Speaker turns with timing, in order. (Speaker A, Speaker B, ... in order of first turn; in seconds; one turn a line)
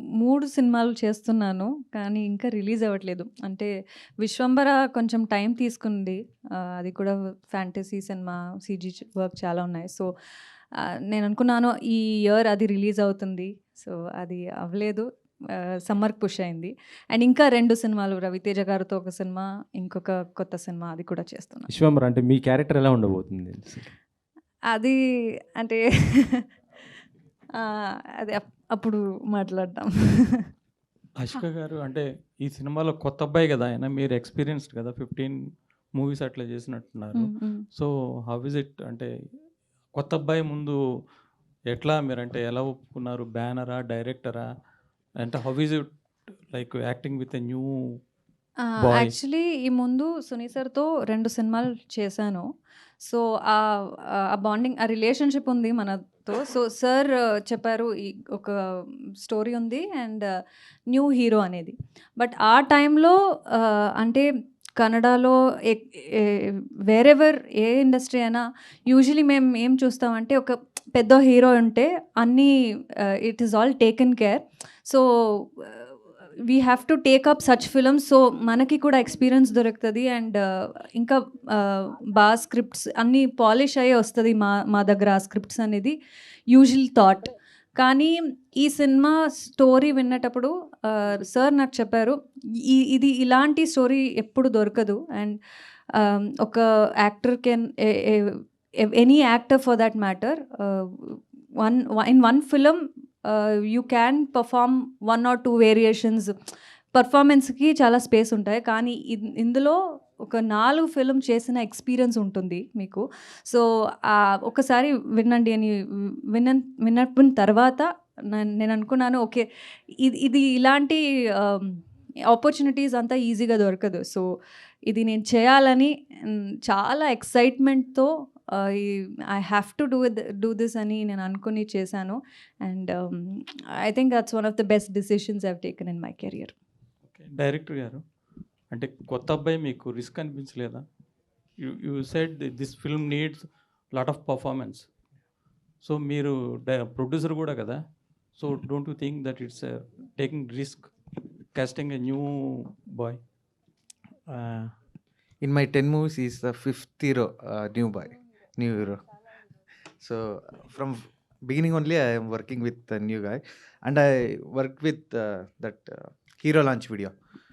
Speaker A: 0.2-3.7
Speaker A: 4.2-10.1
Speaker A: 11.1-21.6
Speaker B: 21.7-23.9
Speaker A: 25.6-26.4
Speaker A: 27.6-30.4
Speaker C: 31.2-39.1
Speaker A: 37.1-37.5
Speaker C: 39.9-40.8
Speaker C: 41.7-44.5
Speaker C: 45.2-45.9
Speaker C: 46.5-48.0
Speaker C: 48.8-49.1
Speaker A: 48.9-52.5
Speaker A: 53.0-60.3
Speaker A: 60.9-64.2
Speaker A: 64.8-72.5
Speaker A: 73.2-75.8
Speaker A: 76.5-85.9
Speaker A: 86.5-92.2
Speaker A: 92.7-95.4
Speaker A: 96.0-106.3
Speaker A: 106.9-109.8
Speaker A: 110.3-115.7
Speaker A: 116.3-119.4
Speaker A: 120.0-121.8
Speaker A: 122.3-124.2
Speaker A: 124.9-136.5
Speaker C: 137.1-138.0
Speaker C: 138.7-140.8
Speaker C: 141.6-144.9
Speaker C: 145.8-150.9
Speaker C: 151.5-153.2
Speaker D: 154.3-154.8
Speaker D: 155.4-159.0
Speaker D: 160.0-167.1